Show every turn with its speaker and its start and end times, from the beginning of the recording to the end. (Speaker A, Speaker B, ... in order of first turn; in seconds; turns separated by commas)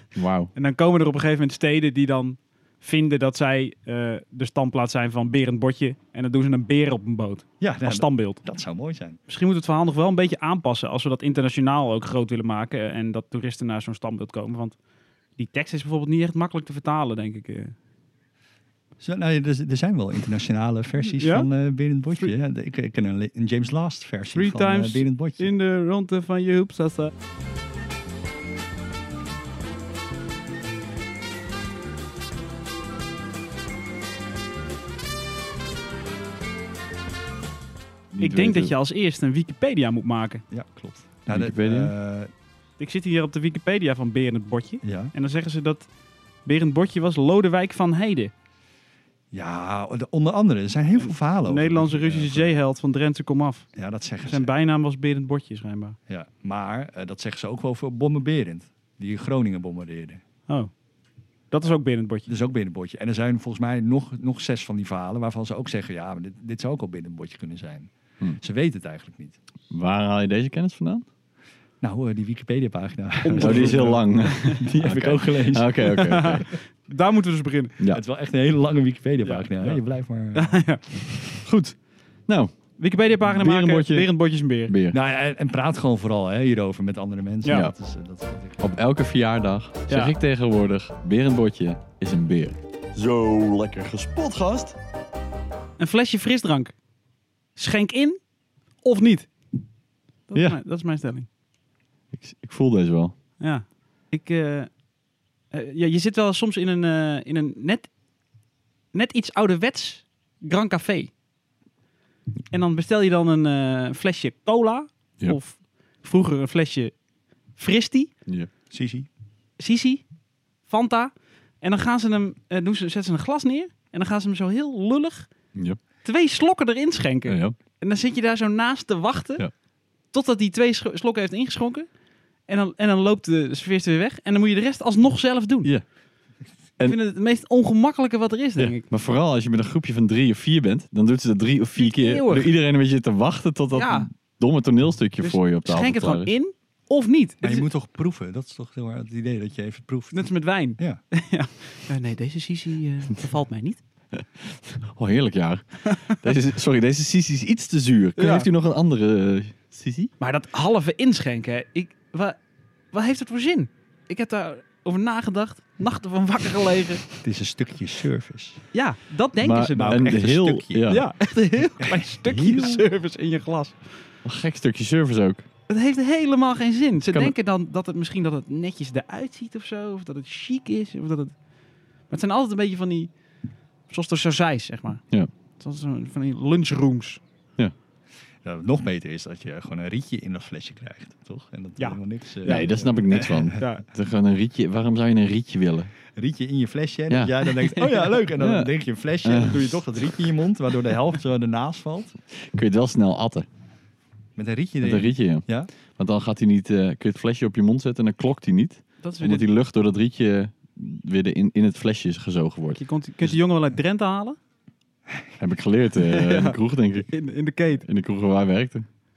Speaker A: 0.1-0.5, Speaker B: 0.6-8.4, Speaker C: 7.6-9.2, Speaker B: 9.3-14.8, Speaker B: 15.4-17.8, Speaker C: 19.0-25.5, Speaker B: 21.0-21.5, Speaker B: 24.3-27.1, Speaker A: 38.1-38.8, Speaker B: 38.2-40.4, Speaker C: 40.5-42.3, Speaker A: 41.3-41.9, Speaker B: 42.8-45.9, Speaker C: 44.8-45.1, Speaker B: 46.5-48.3, Speaker C: 49.3-52.6, Speaker B: 51.0-53.7, Speaker C: 53.8-54.5, Speaker B: 54.2-56.0, Speaker C: 56.1-60.2, Speaker B: 61.5-62.3, Speaker C: 62.3-69.4, Speaker A: 69.7-71.0, Speaker C: 71.8-76.3, Speaker B: 73.2-74.6, Speaker A: 73.4-76.5, Speaker B: 75.8-77.8, Speaker C: 77.9-80.6, Speaker B: 79.2-79.8, Speaker B: 80.3-81.3, Speaker A: 81.5-82.5, Speaker B: 82.8-84.7, Speaker A: 83.3-84.1, Speaker A: 84.7-85.0, Speaker C: 84.9-88.6, Speaker A: 87.5-87.7, Speaker A: 88.6-94.8, Speaker B: 89.9-90.2, Speaker B: 95.8-96.7, Speaker B: 97.6-98.2, Speaker B: 98.8-99.3, Speaker B: 100.3-101.3, Speaker A: 100.3-100.6, Speaker A: 102.1-103.2, Speaker B: 103.4-104.7, Speaker B: 105.5-107.9, Speaker B: 108.9-111.1, Speaker B: 112.5-116.9, Speaker B: 117.6-118.1, Speaker C: 118.7-119.1, Speaker B: 119.6-120.0, Speaker B: 120.7-125.3, Speaker B: 126.0-129.5, Speaker A: 127.3-127.6, Speaker B: 130.1-131.9, Speaker B: 132.5-135.7, Speaker B: 136.8-138.9, Speaker A: 138.6-146.3, Speaker B: 141.8-142.5, Speaker B: 143.7-144.1, Speaker B: 145.2-147.7, Speaker C: 147.4-150.3, Speaker B: 150.1-153.8, Speaker A: 154.1-160.1, Speaker B: 155.9-156.1, Speaker B: 158.2-158.5, Speaker B: 160.2-162.4, Speaker B: 162.9-167.1, Speaker C: 167.2-168.6, Speaker B: 168.7-170.2, Speaker A: 169.4-171.1, Speaker C: 169.8-171.0, Speaker B: 170.9-174.0, Speaker C: 171.8-172.8, Speaker A: 174.2-175.5, Speaker B: 175.7-181.3, Speaker A: 177.1-177.3, Speaker B: 182.1-183.1, Speaker B: 183.9-185.0, Speaker B: 185.6-187.2, Speaker C: 188.4-193.6, Speaker B: 191.8-193.8, Speaker A: 192.4-195.9, Speaker C: 196.2-202.2, Speaker A: 197.1-197.4, Speaker B: 197.6-198.3, Speaker A: 198.4-198.7, Speaker A: 199.2-199.8, Speaker A: 202.3-203.5, Speaker C: 204.4-205.7, Speaker A: 204.8-213.4, Speaker B: 209.0-209.5, Speaker B: 212.8-214.4, Speaker A: 215.4-217.1, Speaker B: 216.0-216.6, Speaker B: 217.1-217.8, Speaker A: 217.8-218.8